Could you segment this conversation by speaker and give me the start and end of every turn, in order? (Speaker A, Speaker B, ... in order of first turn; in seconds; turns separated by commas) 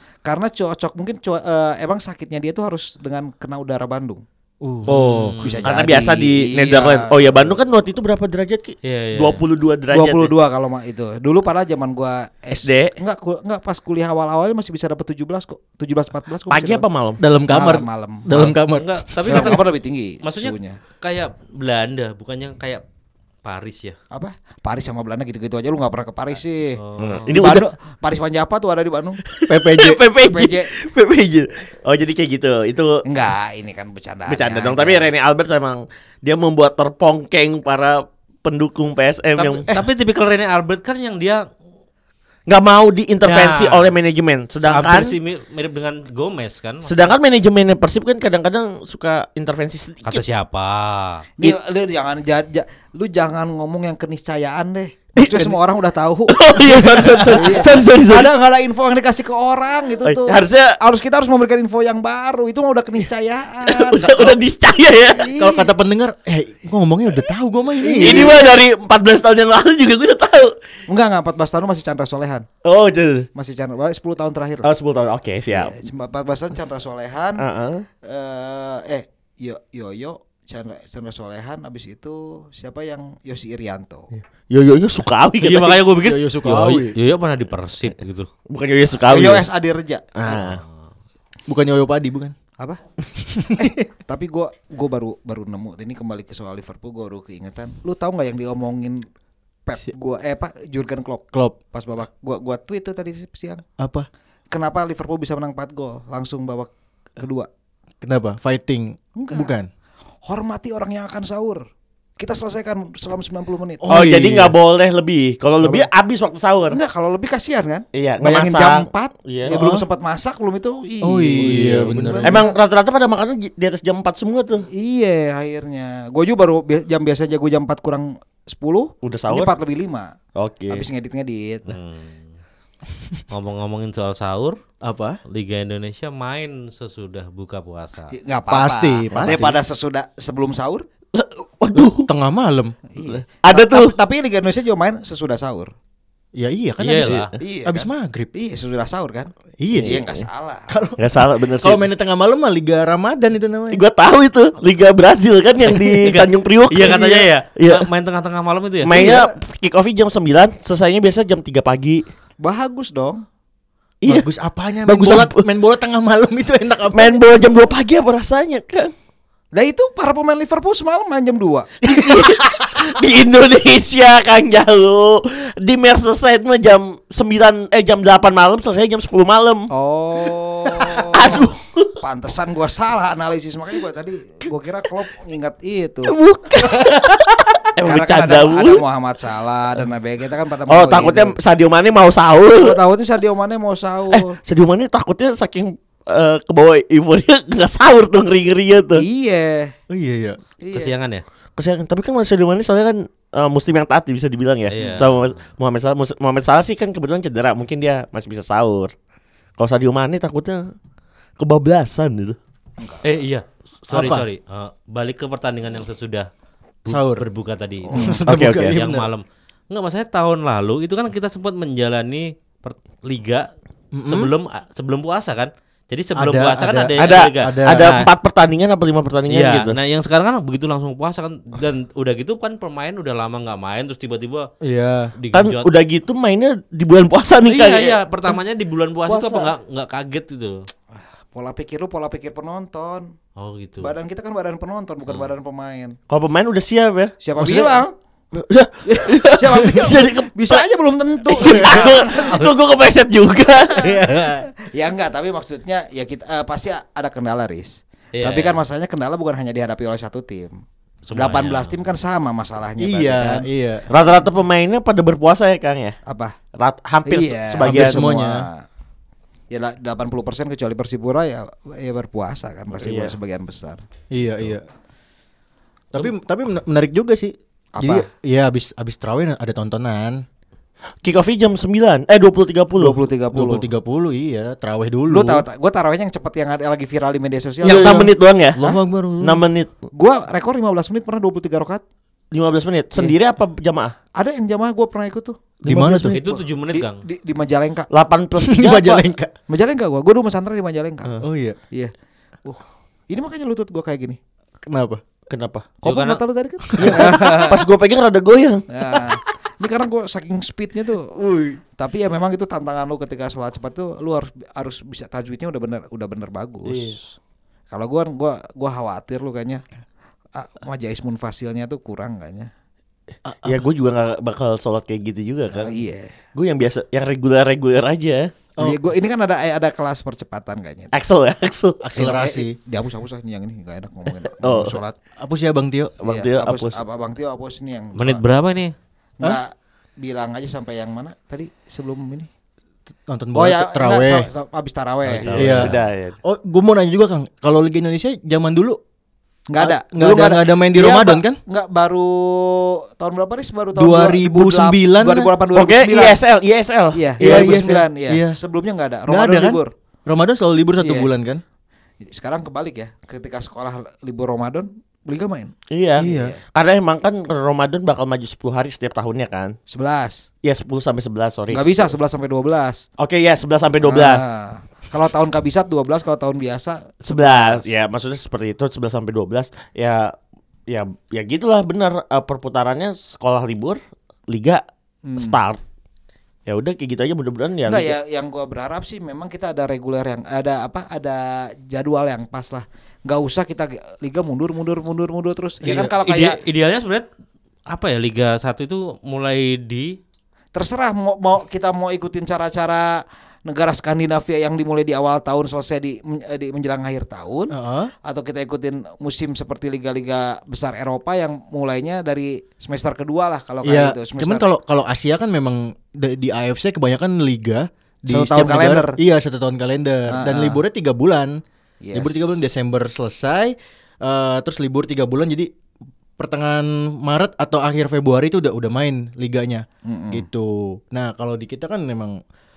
Speaker A: 0.2-4.2, Speaker B: 4.6-5.3, Speaker C: 4.9-5.6, Speaker D: 4.9-10.3, Speaker A: 5.4-7.6, Speaker C: 8.8-9.4, Speaker A: 9.9-16.9, Speaker D: 12.5-12.9, Speaker D: 16.5-17.2, Speaker B: 17.2-19.6, Speaker A: 17.5-18.6, Speaker C: 18.4-19.6, Speaker A: 19.3-20.8, Speaker C: 20.2-22.8, Speaker C: 23.4-24.0, Speaker A: 24.1-29.2, Speaker C: 26.8-27.3, Speaker D: 27.0-27.7, Speaker D: 29.4-33.0, Speaker B: 29.5-30.0, Speaker A: 30.3-30.7, Speaker A: 33.0-35.1, Speaker D: 34.3-39.7, Speaker C: 39.7-41.4, Speaker D: 42.5-45.1, Speaker C: 43.2-43.9, Speaker C: 44.6-47.1, Speaker D: 46.9-50.2, Speaker C: 50.1-51.3, Speaker A: 51.4-64.3, Speaker D: 55.2-55.6, Speaker D: 56.3-58.3, Speaker B: 57.0-57.7, Speaker D: 60.0-60.8, Speaker D: 63.6-65.3, Speaker B: 64.0-64.3, Speaker A: 65.1-65.7, Speaker B: 65.3-68.4, Speaker A: 67.8-68.5, Speaker D: 68.0-70.5, Speaker A: 70.9-72.5, Speaker D: 72.7-73.3, Speaker A: 73.3-74.7, Speaker D: 74.6-75.8, Speaker A: 75.5-77.4, Speaker D: 77.4-77.9, Speaker A: 78.0-84.1, Speaker D: 84.5-85.8, Speaker C: 85.4-88.3, Speaker B: 86.0-87.0, Speaker D: 88.5-89.5, Speaker A: 89.1-90.6, Speaker D: 90.2-90.6, Speaker B: 91.5-92.3, Speaker B: 93.3-93.8, Speaker A: 93.6-99.0, Speaker A: 99.7-103.6, Speaker B: 103.8-104.1, Speaker A: 104.5-107.5, Speaker B: 108.0-109.7, Speaker A: 109.2-109.5, Speaker A: 110.2-111.6, Speaker A: 112.2-113.8, Speaker B: 113.8-114.5, Speaker D: 113.9-116.8, Speaker A: 116.7-122.6, Speaker D: 118.0-119.5, Speaker B: 119.5-119.9, Speaker B: 121.0-122.5, Speaker D: 121.5-124.7, Speaker A: 124.7-130.2, Speaker D: 129.0-129.5, Speaker D: 130.4-130.9, Speaker A: 130.7-131.8, Speaker C: 131.7-132.3, Speaker C: 133.3-134.6, Speaker B: 134.8-135.2, Speaker C: 135.3-138.1, Speaker A: 138.1-140.8, Speaker B: 138.5-139.6, Speaker D: 141.2-142.1, Speaker B: 142.0-142.8, Speaker A: 142.9-145.7, Speaker D: 143.0-143.9, Speaker B: 146.4-148.3, Speaker C: 146.8-147.3, Speaker A: 147.4-150.8, Speaker B: 149.6-150.0, Speaker D: 149.7-150.3, Speaker B: 150.7-153.8, Speaker D: 151.0-151.8, Speaker D: 153.7-157.9, Speaker C: 156.7-158.9, Speaker D: 158.8-162.0, Speaker B: 158.9-159.3, Speaker A: 162.4-163.2, Speaker D: 164.0-164.3, Speaker B: 164.1-167.2, Speaker D: 164.8-165.5, Speaker D: 166.9-168.9, Speaker A: 169.5-171.7, Speaker B: 171.8-172.8, Speaker D: 171.9-179.7, Speaker A: 179.7-181.5, Speaker D: 180.7-181.9, Speaker A: 182.0-186.2, Speaker D: 186.1-188.8, Speaker A: 187.8-191.4, Speaker D: 190.7-192.8, Speaker A: 192.6-194.3, Speaker D: 194.1-199.1, Speaker A: 199.0-199.7, Speaker B: 199.9-200.4, Speaker A: 200.6-200.9, Speaker C: 200.7-201.2, Speaker D: 201.6-208.9, Speaker C: 204.7-205.4, Speaker D: 209.6-210.7, Speaker D: 211.4-212.4, Speaker C: 213.0-216.3, Speaker B: 213.9-214.2, Speaker C: 216.8-223.5, Speaker B: 216.9-217.2, Speaker A: 217.9-218.2, Speaker B: 217.9-219.1, Speaker D: 218.3-218.7, Speaker B: 223.9-224.3, Speaker C: 224.0-228.1, Speaker B: 226.2-228.0, Speaker D: 227.0-229.8, Speaker C: 229.3-234.5, Speaker B: 234.6-235.1, Speaker C: 235.2-235.7, Speaker D: 235.3-238.0, Speaker C: 237.5-240.7, Speaker D: 239.1-239.5, Speaker A: 240.9-243.1, Speaker C: 243.4-243.9, Speaker A: 243.8-246.0, Speaker D: 246.1-247.8, Speaker A: 247.2-247.9, Speaker D: 248.3-250.7, Speaker A: 248.9-252.5, Speaker D: 251.3-253.9, Speaker B: 251.4-252.1, Speaker B: 253.8-254.5, Speaker A: 254.7-260.6, Speaker C: 258.1-258.6, Speaker C: 261.1-261.7, Speaker A: 261.1-263.5, Speaker B: 262.8-263.9, Speaker D: 263.9-266.0, Speaker A: 266.1-266.4, Speaker D: 266.6-268.0, Speaker A: 267.1-268.6, Speaker B: 267.6-268.5, Speaker A: 269.5-273.8, Speaker D: 272.8-273.2, Speaker B: 274.1-274.6, Speaker B: 275.9-280.2, Speaker A: 277.8-278.1, Speaker D: 281.0-283.0, Speaker A: 282.8-283.6, Speaker B: 283.3-285.4, Speaker A: 285.1-288.1, Speaker D: 287.6-288.6, Speaker B: 287.6-289.4, Speaker D: 289.2-289.7, Speaker A: 289.9-291.8, Speaker D: 292.3-294.0, Speaker A: 294.2-297.9, Speaker B: 295.6-296.2, Speaker C: 296.1-297.0, Speaker D: 297.9-299.1, Speaker B: 298.4-299.3, Speaker A: 299.5-301.9, Speaker B: 301.1-301.6, Speaker A: 302.4-304.2, Speaker B: 304.7-305.0, Speaker D: 305.3-305.7, Speaker A: 305.8-307.6, Speaker C: 305.9-306.2, Speaker B: 306.7-307.5, Speaker D: 306.8-309.0, Speaker A: 308.7-311.1, Speaker B: 311.2-311.6, Speaker A: 311.8-317.0, Speaker D: 316.7-317.0, Speaker A: 317.7-319.6, Speaker A: 320.4-322.5, Speaker B: 323.3-323.6, Speaker D: 323.4-325.8, Speaker A: 325.5-326.1, Speaker D: 326.4-328.3, Speaker A: 328.6-330.9, Speaker D: 330.9-331.8, Speaker B: 331.8-332.6, Speaker A: 331.9-334.9, Speaker D: 334.4-334.8, Speaker B: 335.2-336.0, Speaker D: 336.0-336.8, Speaker A: 336.1-338.2, Speaker C: 338.0-338.7, Speaker A: 339.2-342.3, Speaker B: 343.1-344.3, Speaker A: 343.4-345.5, Speaker D: 345.1-346.2, Speaker C: 345.2-345.7, Speaker B: 345.4-348.8, Speaker A: 349.5-356.2, Speaker B: 349.6-351.4, Speaker B: 353.8-355.3, Speaker D: 355.6-357.8, Speaker A: 356.9-359.7, Speaker B: 357.2-358.4, Speaker B: 359.1-361.4, Speaker A: 360.8-361.1, Speaker A: 362.0-366.4, Speaker D: 365.7-369.6, Speaker B: 366.0-366.4, Speaker A: 369.7-370.2, Speaker D: 370.4-371.9, Speaker A: 371.5-372.9, Speaker D: 373.0-374.2, Speaker A: 373.8-377.7, Speaker D: 377.1-380.1, Speaker D: 380.7-384.6, Speaker A: 385.1-385.4, Speaker D: 385.2-385.6, Speaker D: 386.5-388.0, Speaker A: 387.7-396.4, Speaker C: 395.6-397.1, Speaker C: 397.7-400.0, Speaker A: 400.5-407.5, Speaker B: 407.5-407.9, Speaker A: 408.1-414.5, Speaker B: 413.6-421.4, Speaker A: 418.1-419.0, Speaker A: 420.1-420.6, Speaker A: 421.8-422.4, Speaker B: 421.9-425.5, Speaker B: 426.2-432.2, Speaker A: 429.9-430.3